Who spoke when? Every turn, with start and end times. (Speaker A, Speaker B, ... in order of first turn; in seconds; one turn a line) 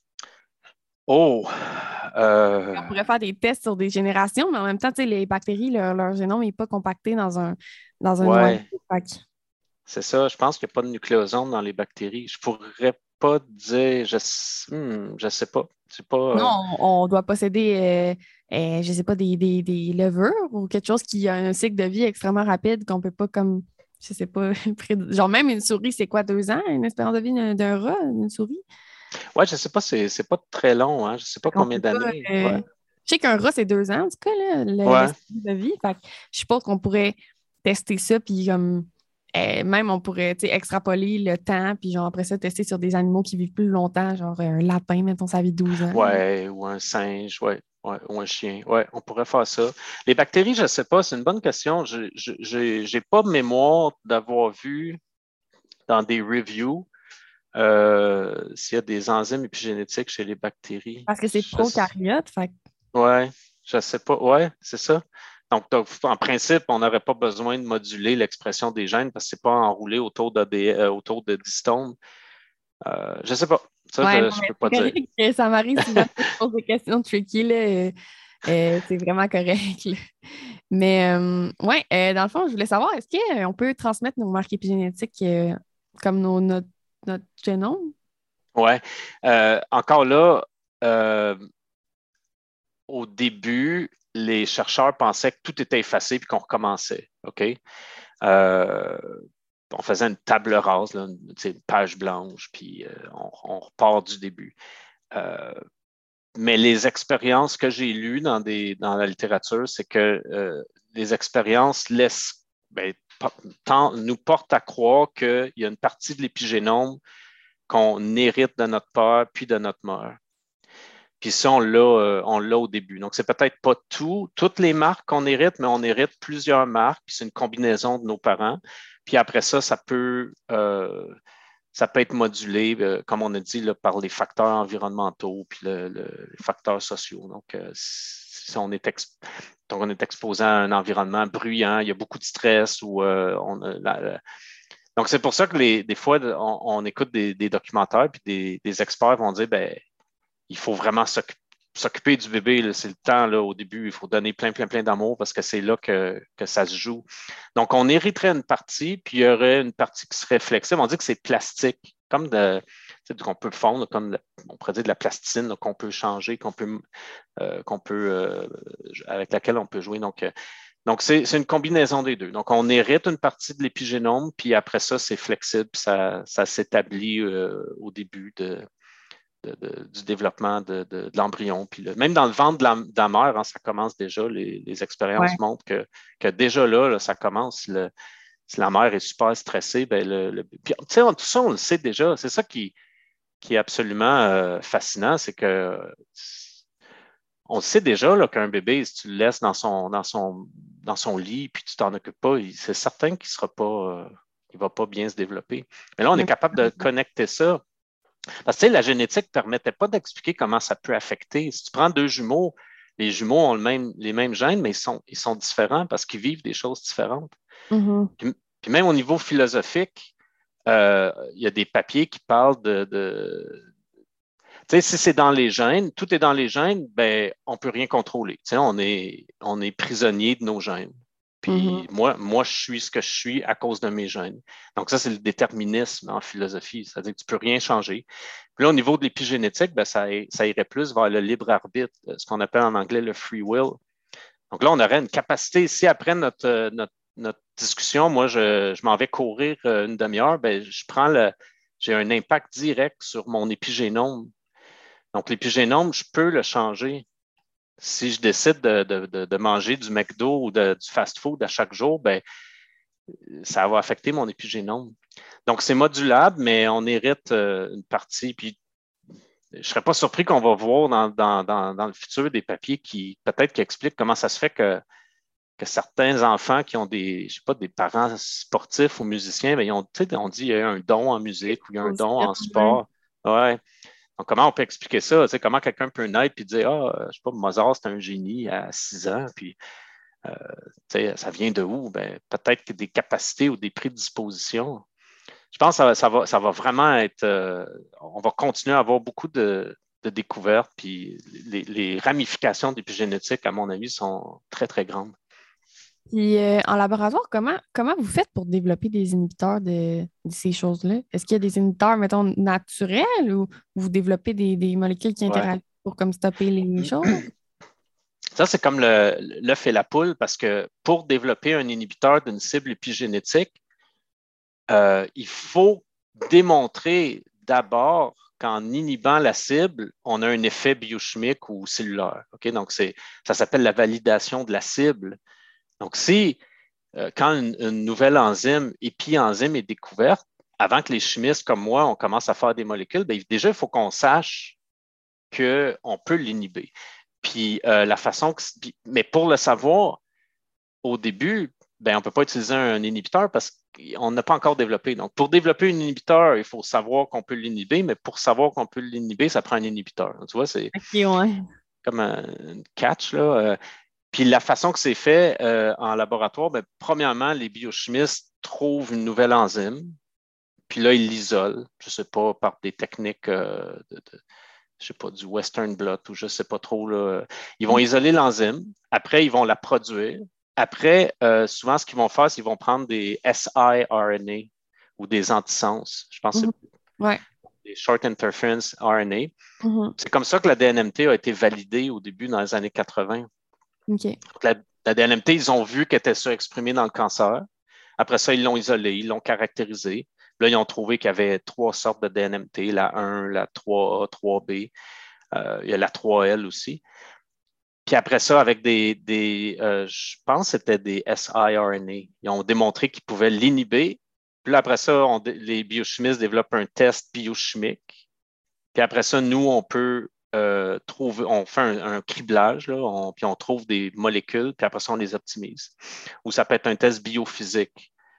Speaker A: 1.1-2.9
Speaker B: 2.7-9.2
Speaker A: 8.2-8.7
Speaker A: 9.9-16.6
Speaker B: 16.3-28.6
Speaker A: 29.4-32.6
Speaker B: 31.5-46.2
Speaker A: 34.9-35.1
Speaker A: 45.9-55.0
Speaker A: 55.9-56.9
Speaker A: 57.5-61.9
Speaker B: 61.1-62.5
Speaker A: 62.9-72.0
Speaker A: 72.8-75.0
Speaker B: 74.0-80.0
Speaker A: 75.8-76.1
Speaker B: 80.7-87.9
Speaker A: 88.5-91.4
Speaker A: 92.9-97.6
Speaker A: 98.2-104.5
Speaker A: 105.1-105.6
Speaker A: 106.4-117.0
Speaker A: 117.7-120.2
Speaker A: 121.2-131.2
Speaker A: 131.7-144.2
Speaker A: 145.0-149.8
Speaker A: 150.5-166.8
Speaker A: 167.4-170.3
Speaker A: 170.9-178.7
Speaker A: 179.4-187.9
Speaker A: 188.5-192.7
Speaker A: 193.4-196.5
Speaker A: 197.5-207.6
Speaker B: 206.2-206.7
Speaker A: 208.4-217.3
Speaker B: 217.7-218.1
Speaker A: 218.2-220.1
Speaker A: 220.7-223.6
Speaker A: 224.7-238.1
Speaker B: 231.5-231.8
Speaker A: 238.6-243.8
Speaker A: 244.5-254.3
Speaker A: 255.1-257.1
Speaker A: 257.8-262.2
Speaker A: 263.1-264.9
Speaker A: 265.5-268.6
Speaker A: 269.5-274.8
Speaker A: 275.6-283.6
Speaker B: 281.8-282.8
Speaker A: 284.2-289.6
Speaker A: 290.2-294.8
Speaker A: 295.5-305.1
Speaker B: 306.1-317.2
Speaker A: 316.8-317.2
Speaker A: 318.3-323.6
Speaker A: 324.7-335.2
Speaker A: 335.8-336.4
Speaker A: 336.9-344.6
Speaker A: 345.3-346.7
Speaker A: 347.2-350.0
Speaker A: 350.8-360.7
Speaker B: 360.7-361.5
Speaker A: 361.8-363.6
Speaker A: 364.1-370.0
Speaker A: 370.7-374.2
Speaker A: 374.8-386.5
Speaker B: 386.4-387.2
Speaker A: 387.6-389.3
Speaker B: 389.6-389.9
Speaker A: 390.0-393.3
Speaker B: 393.9-394.2
Speaker A: 394.3-397.4
Speaker A: 398.0-404.7
Speaker A: 405.3-406.8
Speaker A: 407.9-418.0
Speaker A: 418.8-427.9